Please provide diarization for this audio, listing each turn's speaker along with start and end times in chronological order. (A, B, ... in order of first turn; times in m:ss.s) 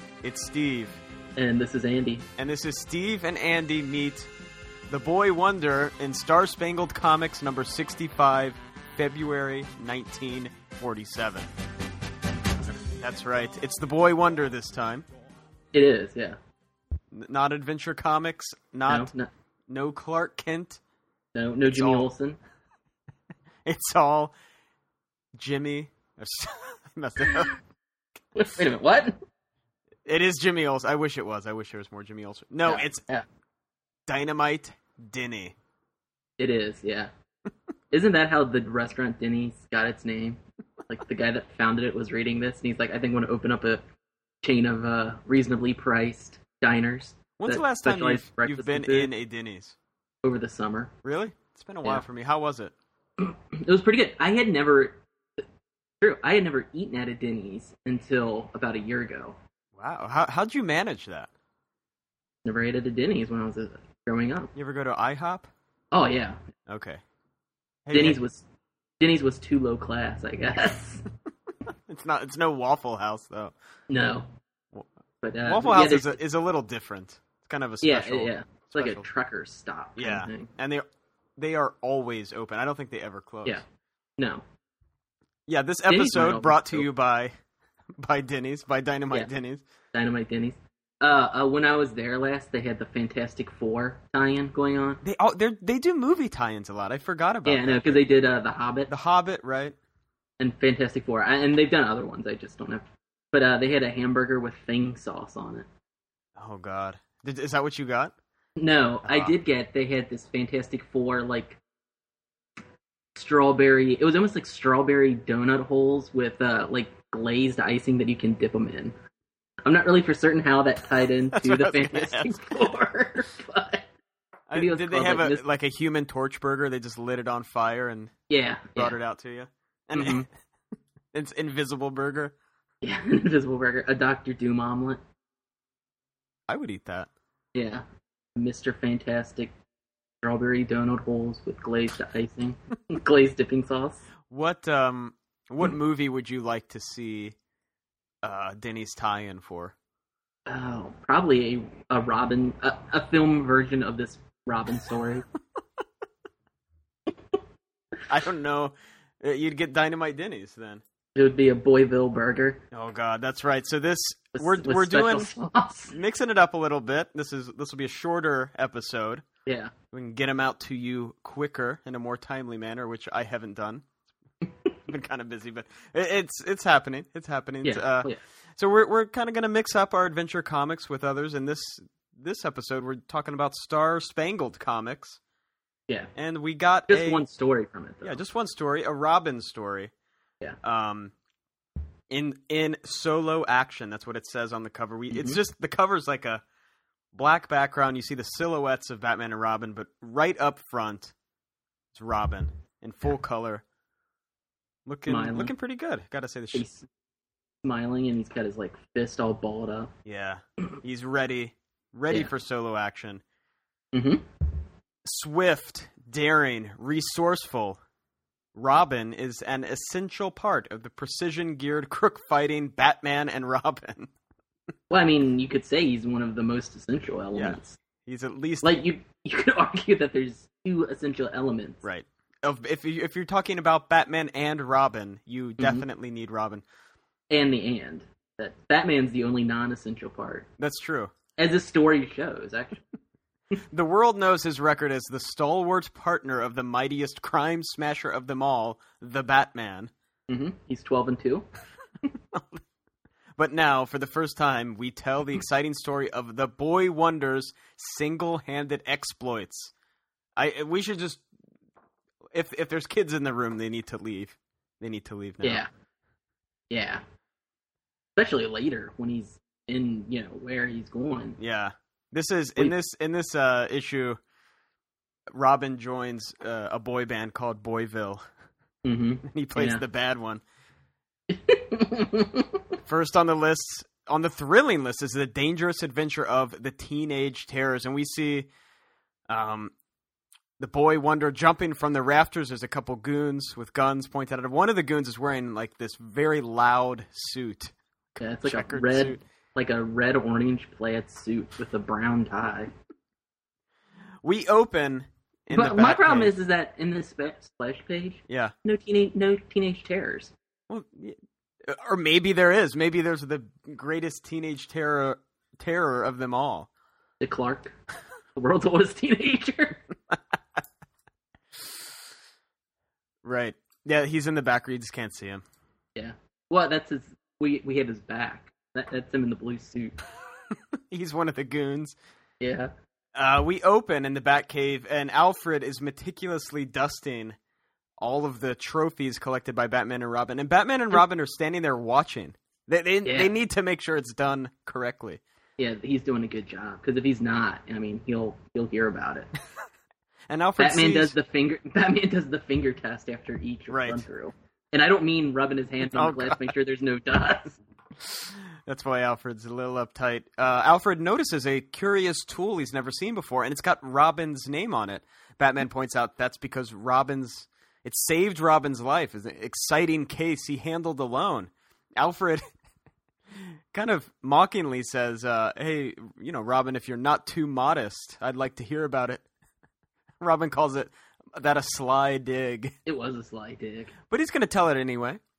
0:00.2-0:01.0 A
0:01.4-0:02.3 B
0:02.4-0:04.3 A
0:04.9-0:11.5 A
0:13.0-0:15.1 A
0:15.7-0:16.4 B
0:17.1-0:19.1 A
0:18.9-0:19.3 B
0:19.7-0:20.8 A
0:21.4-0:22.4 B
0:21.7-0:22.1 A
0:23.7-0:24.3 A
0:25.4-0:27.5 A
0:27.2-0:27.5 B
0:28.4-0:29.2 B
0:30.1-0:33.0 A
0:32.6-0:33.2 B
0:34.1-0:35.5 A
0:36.4-0:37.1 B
0:37.9-0:43.8 B
0:44.4-0:49.1 B
0:47.4-0:49.8 A
0:50.2-0:50.9 B
0:51.0-0:52.7 A
0:53.2-0:55.4 B
0:56.0-0:59.4 B
0:59.8-1:01.3 A
1:02.4-1:04.5 B
1:04.6-1:05.5 A
1:05.9-1:06.4 B
1:06.7-1:07.0 A
1:07.9-1:08.2 A
1:07.9-1:08.4 B
1:09.0-1:11.1 B
1:11.9-1:13.5 A
1:13.9-1:14.3 B
1:15.2-1:16.2 B
1:15.4-1:19.0 A
1:17.8-1:20.5 B
1:20.0-1:20.8 A
1:21.4-1:23.6 A
1:24.2-1:24.4 B
1:25.5-1:27.3 A
1:25.9-1:26.9 B
1:28.0-1:29.6 A
1:29.9-1:35.0 B
1:35.0-1:38.0 A
1:37.5-1:38.9 B
1:38.9-1:39.8 A
1:40.4-1:45.7 B
1:46.4-1:48.1 A
1:48.6-1:51.6 B
1:49.0-1:49.3 A
1:53.2-1:59.0 B
1:59.6-2:03.9 B
2:01.3-2:02.7 A
2:04.5-2:08.1 A
2:04.6-2:05.4 B
2:08.3-2:09.0 B
2:08.8-2:10.3 A
2:10.0-2:10.3 B
2:11.1-2:12.4 A
2:12.8-2:15.0 B
2:16.5-2:17.1 A
2:17.6-2:17.8 B
2:18.4-2:19.5 B
2:20.2-2:24.1 B
2:24.3-2:27.4 A
2:28.2-2:29.7 A
2:30.5-2:35.2 B
2:38.1-2:40.8 A
2:41.2-2:42.6 B
2:42.7-2:45.3 A
2:44.3-2:46.0 B
2:45.9-2:49.2 A
2:49.5-2:49.7 B
2:49.9-2:53.9 A
2:54.9-3:05.2 A
2:57.6-2:58.2 B
3:06.2-3:07.2 A
3:06.9-3:08.2 B
3:08.0-3:09.9 A
3:10.6-3:11.1 A
3:12.1-3:16.4 A
3:15.1-3:15.4 B
3:17.1-3:21.1 A
3:21.9-3:23.6 A
3:24.9-3:26.7 A
3:25.1-3:25.5 B
3:26.5-3:26.9 B
3:27.6-3:29.9 B
3:30.1-3:33.2 A
3:33.9-3:34.2 B
3:35.0-3:37.8 A
3:38.6-3:44.1 A
3:44.9-3:47.8 B
3:47.3-3:48.8 A
3:48.6-3:51.8 B
3:51.8-3:56.6 A
3:55.6-3:55.8 B
3:57.3-4:00.5 B
4:00.6-4:01.1 A
4:01.4-4:02.8 B
4:03.7-4:09.9 A
4:10.3-4:11.4 B
4:12.3-4:12.6 A
4:13.4-4:19.7 A
4:20.4-4:21.2 A
4:22.3-4:25.6 A
4:25.4-4:25.7 B
4:26.7-4:27.0 B
4:28.2-4:31.4 B
4:31.4-4:34.2 A
4:35.3-4:38.2 A
4:38.8-4:39.8 B
4:39.2-4:40.4 A
4:41.3-4:42.6 B
4:42.9-4:48.5 A
4:49.3-4:49.7 A
4:50.6-4:59.2 A
4:58.2-5:02.7 B
5:04.2-5:06.3 A
5:05.5-5:10.3 B
5:08.3-5:08.5 A
5:10.7-5:16.7 A
5:17.2-5:17.8 B
5:18.4-5:19.8 B
5:23.2-5:25.4 A
5:26.0-5:30.0 B
5:30.7-5:32.0 A
5:32.4-5:32.7 B
5:33.2-5:37.4 A
5:38.0-5:45.2 A
5:43.0-5:43.3 B
5:45.6-5:49.3 B
5:50.3-5:51.2 A
5:50.6-5:57.6 B
5:53.7-5:54.0 A
5:55.9-5:56.5 A
5:58.0-6:12.4 A
6:13.4-6:19.2 A
6:20.2-6:22.8 A
6:22.9-6:23.9 B
6:24.1-6:25.2 A